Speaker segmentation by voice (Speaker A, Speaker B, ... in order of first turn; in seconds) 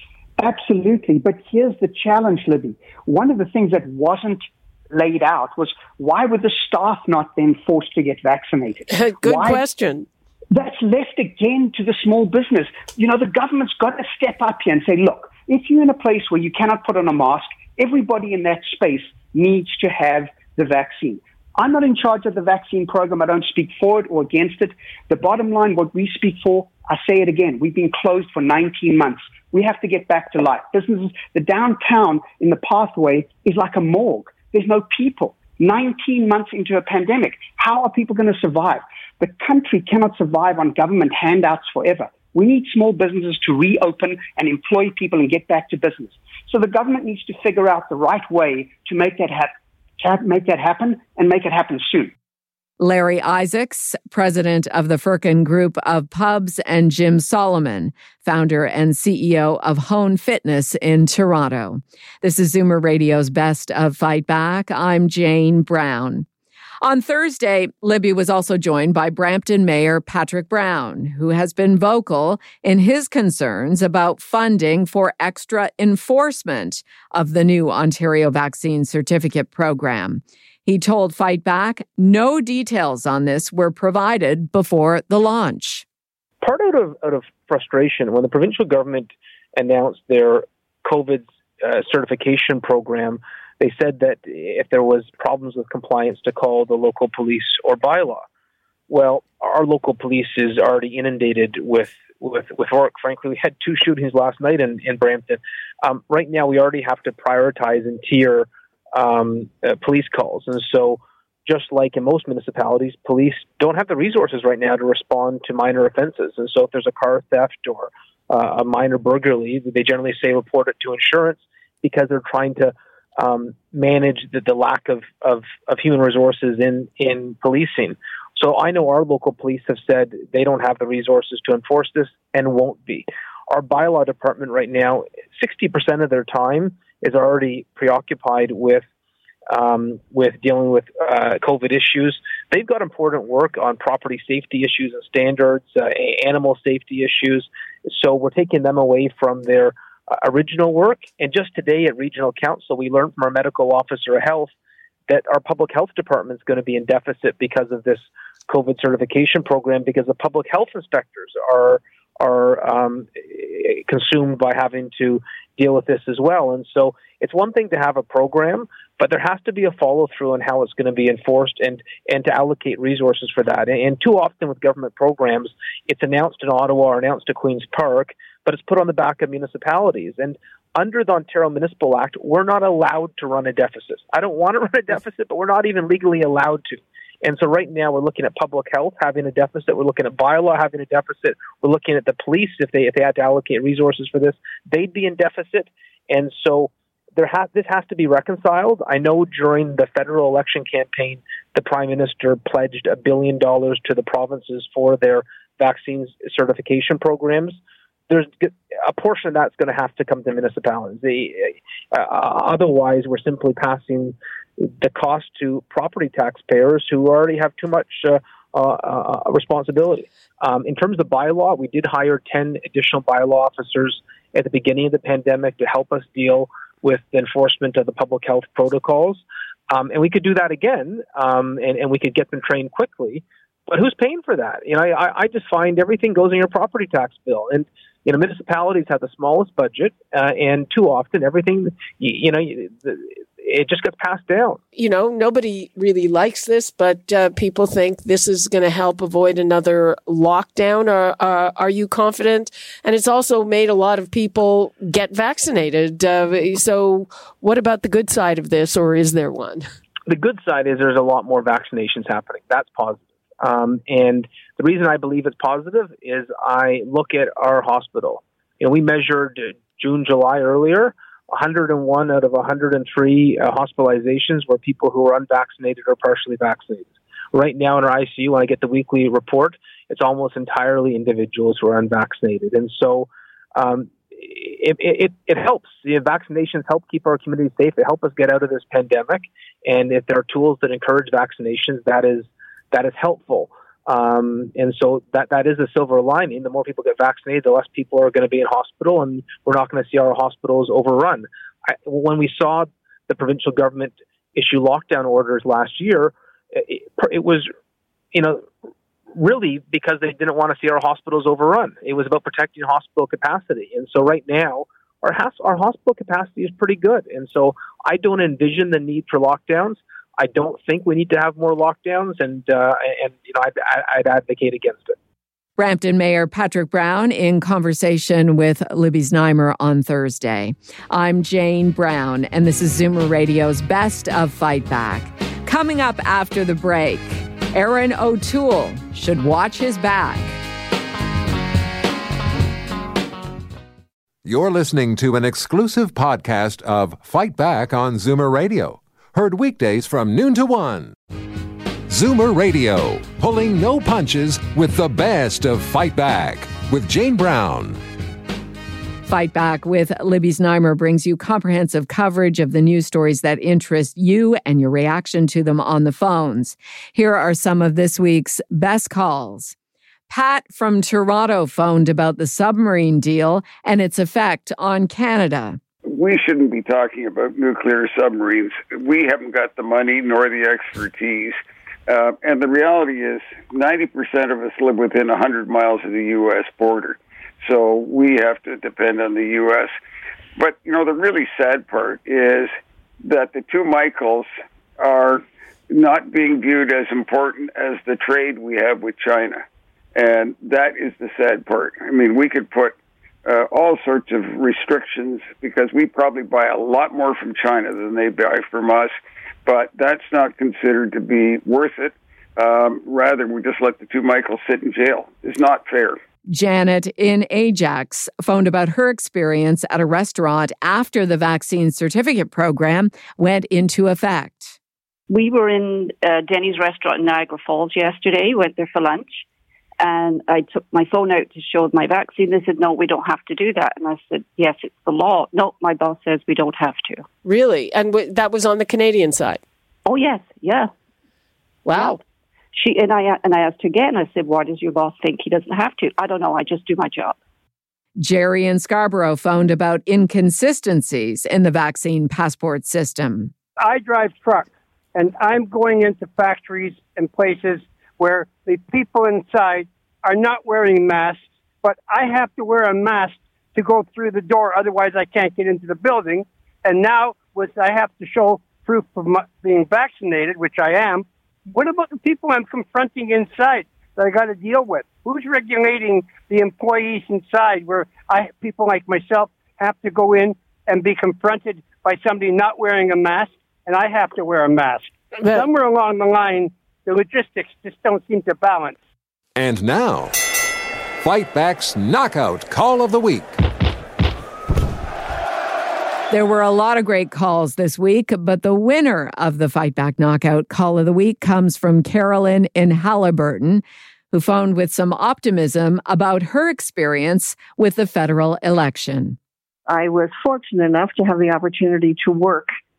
Speaker A: 0.4-9.6, 10.5-52.1
Speaker B: 8.9-10.1, 244.7-259.7, 437.2-439.4, 441.7-442.0, 485.2-485.4
Speaker C: 52.8-66.2, 66.8-85.8, 325.6-340.4, 359.1-369.5, 370.1-375.6, 416.3-424.6, 448.0-453.3, 496.1-509.2
Speaker D: 86.4-98.2, 98.9-138.8, 139.5-154.5, 155.1-207.6, 208.1-244.6, 260.1-301.3, 301.8-307.5, 308.1-308.5, 309.1-324.9
Speaker E: 344.2-350.9, 351.9-357.8, 489.4-490.1, 491.0-493.4
Speaker F: 375.9-389.8, 390.4-399.4, 399.9-416.0
Speaker G: 425.1-429.2, 429.8-437.1, 439.9-440.7, 441.7-442.0, 442.5-447.2
Speaker H: 453.6-488.8
Speaker I: 509.7-512.5